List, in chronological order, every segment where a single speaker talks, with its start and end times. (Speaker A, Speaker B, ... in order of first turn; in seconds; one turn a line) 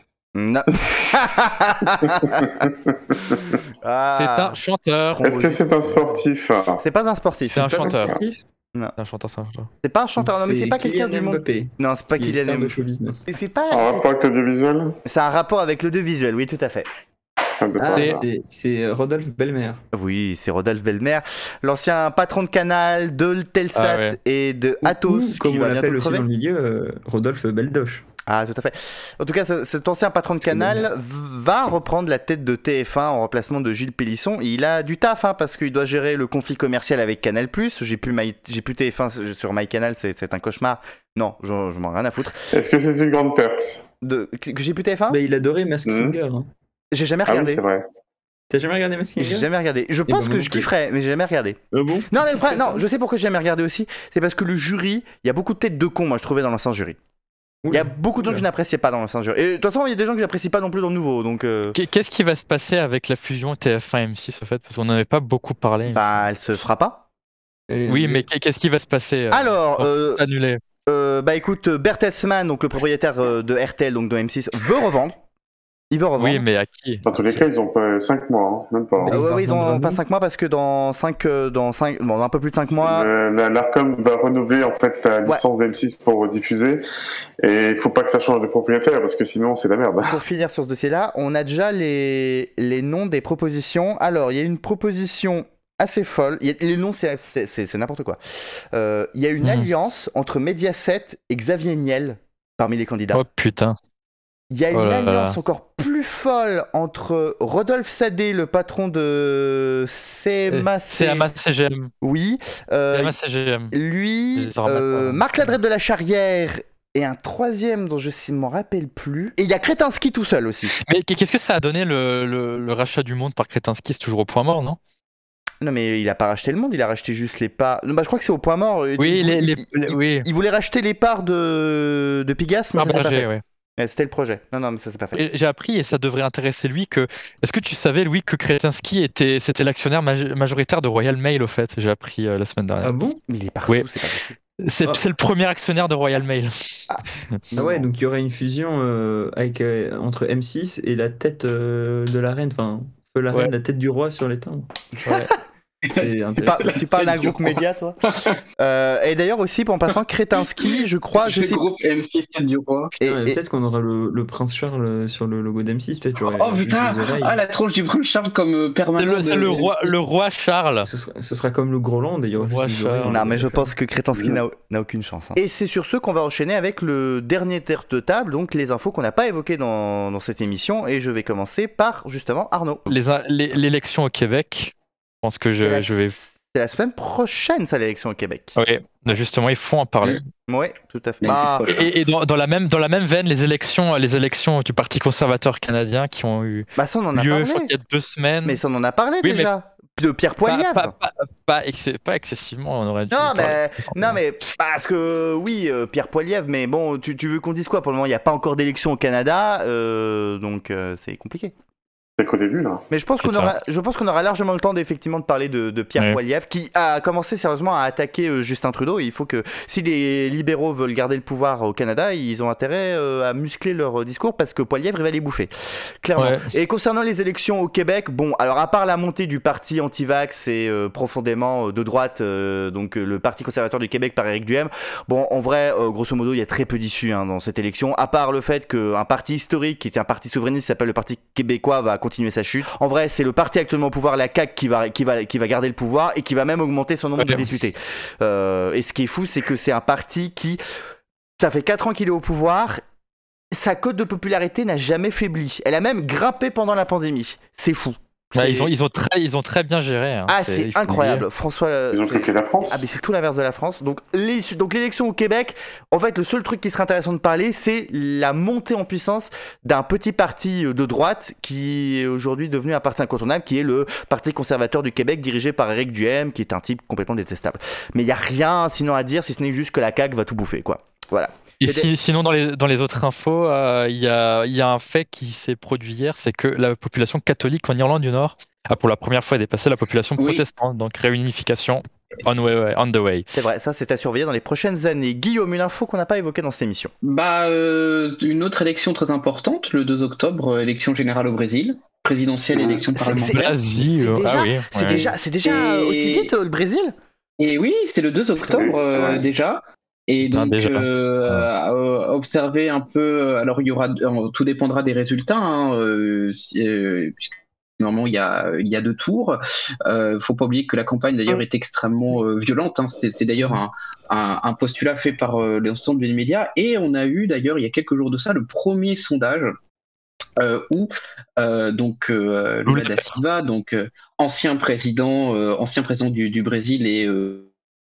Speaker A: 0.3-2.7
Speaker B: 2.2-3.4
Speaker A: 3.7-4.6
Speaker C: 4.1-5.4
Speaker A: 5.2-6.0
Speaker B: 5.2-6.8
Speaker A: 6.8-7.9
Speaker C: 7.5-8.2
Speaker D: 7.6-8.4
Speaker C: 9.0-9.7
Speaker A: 9.8-12.8
Speaker D: 10.2-13.3
Speaker A: 13.3-14.1
Speaker B: 13.7-14.9
Speaker A: 15.1-16.9
Speaker B: 17.6-18.2
Speaker D: 17.8-19.8
Speaker A: 19.9-26.2
Speaker C: 23.7-24.1
Speaker D: 24.8-28.1
Speaker A: 28.3-42.4
Speaker D: 30.4-30.9
Speaker B: 42.5-43.8
Speaker A: 44.0-45.2
Speaker D: 45.1-46.5
Speaker B: 45.9-46.2
Speaker A: 46.9-47.6
Speaker B: 47.3-47.8
Speaker D: 48.5-49.5
Speaker A: 49.2-51.6
Speaker D: 50.1-50.7
Speaker D: 51.7-52.8
Speaker A: 52.1-57.0
Speaker D: 57.6-58.4
Speaker A: 57.7-61.8
Speaker C: 61.7-66.2
Speaker A: 65.8-67.0
Speaker D: 67.7-68.2
Speaker C: 67.9-70.6
Speaker A: 69.3-70.2
Speaker A: 70.9-75.2
Speaker A: 75.9-76.4
Speaker C: 76.2-77.4
Speaker B: 77.0-79.2
Speaker D: 79.0-80.0
Speaker A: 79.1-83.1
Speaker B: 82.7-86.8
Speaker B: 87.4-90.2
Speaker A: 90.0-98.2
Speaker A: 98.7-103.2
Speaker C: 99.4-99.7
Speaker C: 103.1-103.8
Speaker A: 104.5-111.3
Speaker C: 104.7-105.4
Speaker C: 110.5-111.9
Speaker A: 112.0-113.1
Speaker C: 112.9-113.7
Speaker A: 113.7-120.7
Speaker C: 114.3-115.5
Speaker C: 120.7-124.8
Speaker A: 125.6-135.2
Speaker C: 129.0-130.3
Speaker C: 132.8-133.4
Speaker C: 135.1-142.9
Speaker D: 142.8-143.2
Speaker A: 143.3-144.4
Speaker C: 144.6-146.5
Speaker A: 146.9-147.9
Speaker D: 147.5-155.3
Speaker E: 155.8-158.3
Speaker D: 155.9-156.8
Speaker A: 156.4-158.0
Speaker A: 158.6-161.6
Speaker E: 161.2-162.9
Speaker A: 163.0-163.4
Speaker D: 163.0-167.4
Speaker E: 166.2-169.9
Speaker C: 169.0-170.9
Speaker D: 170.8-173.7
Speaker C: 172.4-173.2
Speaker A: 173.1-182.9
Speaker B: 174.2-174.4
Speaker C: 182.9-186.2
Speaker A: 185.6-188.6
Speaker C: 188.6-190.2
Speaker A: 190.5-191.7
Speaker E: 191.2-191.9
Speaker C: 191.7-198.6
Speaker A: 196.8-197.7
Speaker A: 198.4-200.9
Speaker C: 199.2-199.5
Speaker C: 200.4-204.2
Speaker A: 203.1-211.5
Speaker B: 212.2-212.8
Speaker A: 212.9-250.6
Speaker C: 213.2-213.5
Speaker C: 226.2-226.5
Speaker C: 247.2-247.5
Speaker A: 251.4-252.8
Speaker A: 253.5-258.7
Speaker C: 258.3-261.2
Speaker A: 260.3-281.9
Speaker B: 261.9-262.9
Speaker C: 281.6-293.3
Speaker E: 290.2-290.4
Speaker A: 293.3-296.9
Speaker E: 297.0-303.4
Speaker A: 302.5-306.9
Speaker C: 303.2-305.1
Speaker E: 305.0-306.3
Speaker E: 307.4-329.5
Speaker B: 308.5-309.2
Speaker C: 310.2-311.5
Speaker E: 330.4-337.5
Speaker C: 332.7-333.1